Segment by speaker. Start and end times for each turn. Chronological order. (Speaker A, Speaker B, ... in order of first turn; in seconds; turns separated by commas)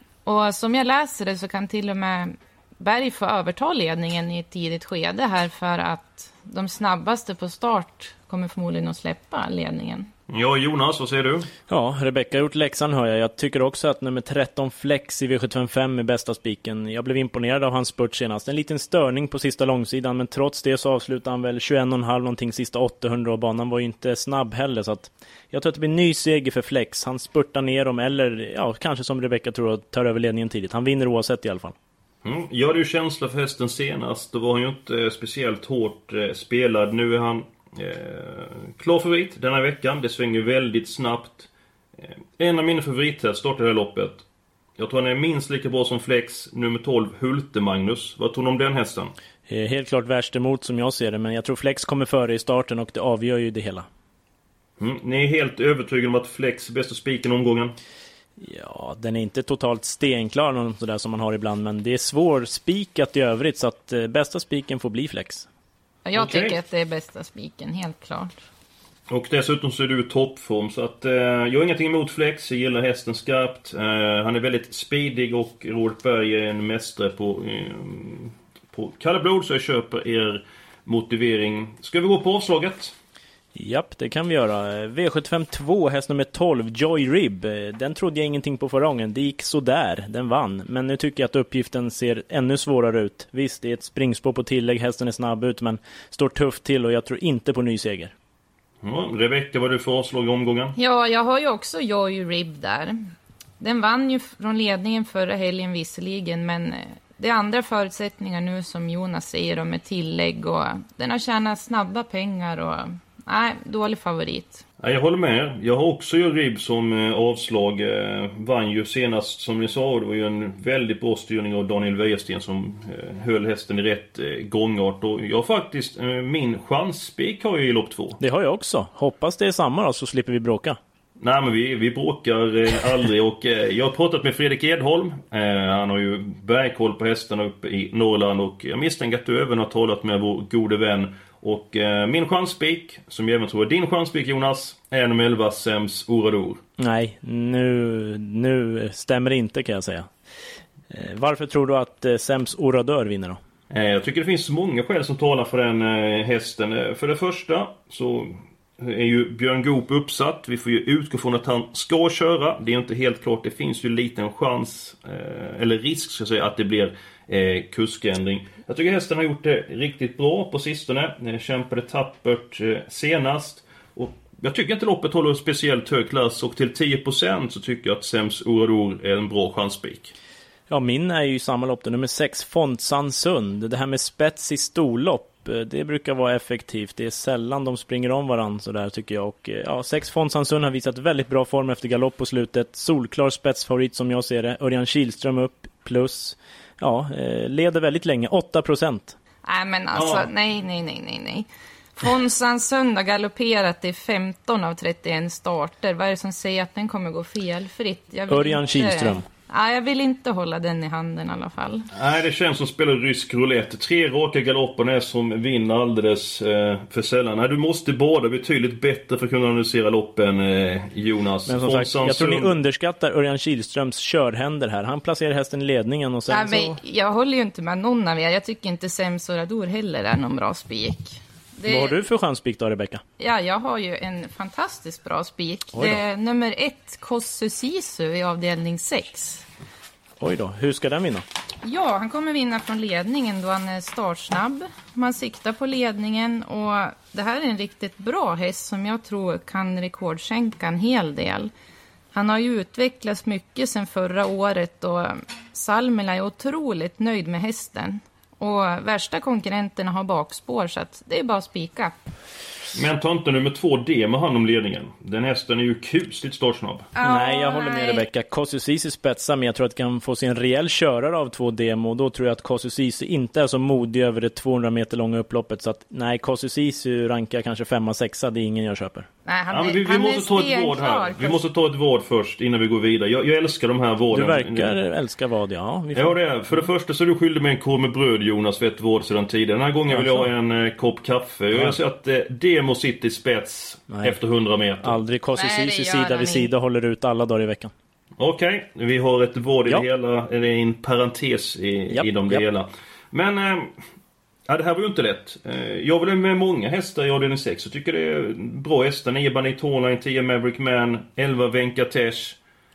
Speaker A: 0.2-10.1, Speaker B: 10.3-11.5, Speaker C: 11.7-31.7, Speaker B: 32.2-44.2, Speaker B: 44.8-49.1, Speaker C: 49.5-53.9, Speaker B: 54.8-57.7, Speaker C: 58.4-65.5, Speaker A: 66.0-68.3, Speaker B: 66.1-66.5, Speaker B: 69.1-82.9, Speaker C: 83.5-98.1, Speaker B: 98.8-100.7, Speaker A: 100.8-102.9, Speaker A: 103.6-114.6, Speaker B: 114.8-128.2, Speaker C: 128.2-130.8, Speaker B: 131.2-146.6, Speaker C: 146.8-150.1, Speaker C: 150.9-153.4, Speaker B: 153.7-180.1, Speaker C: 180.7-199.2, Speaker A: 199.4-211.9, Speaker B: 199.9-200.3, Speaker C: 208.3-209.2, Speaker B: 211.9-222.5, Speaker C: 221.5-226.8, Speaker A: 226.3-232.0, Speaker C: 231.7-233.0, Speaker A: 233.2-239.4, Speaker C: 235.7-236.0, Speaker C: 240.2-241.2, Speaker A: 241.6-251.5, Speaker A: 252.1-262.0, Speaker B: 262.7-266.9, Speaker A: 267.0-268.0, Speaker C: 267.0-279.1, Speaker A: 279.2-281.4, Speaker B: 279.5-284.8, Speaker C: 284.1-286.7, Speaker B: 285.9-295.0, Speaker C: 289.9-290.3, Speaker C: 291.5-291.8, Speaker C: 293.9-294.1, Speaker C: 294.8-297.7, Speaker A: 295.3-296.5, Speaker B: 298.2-303.7, Speaker C: 301.9-302.4, Speaker B: 304.5-312.4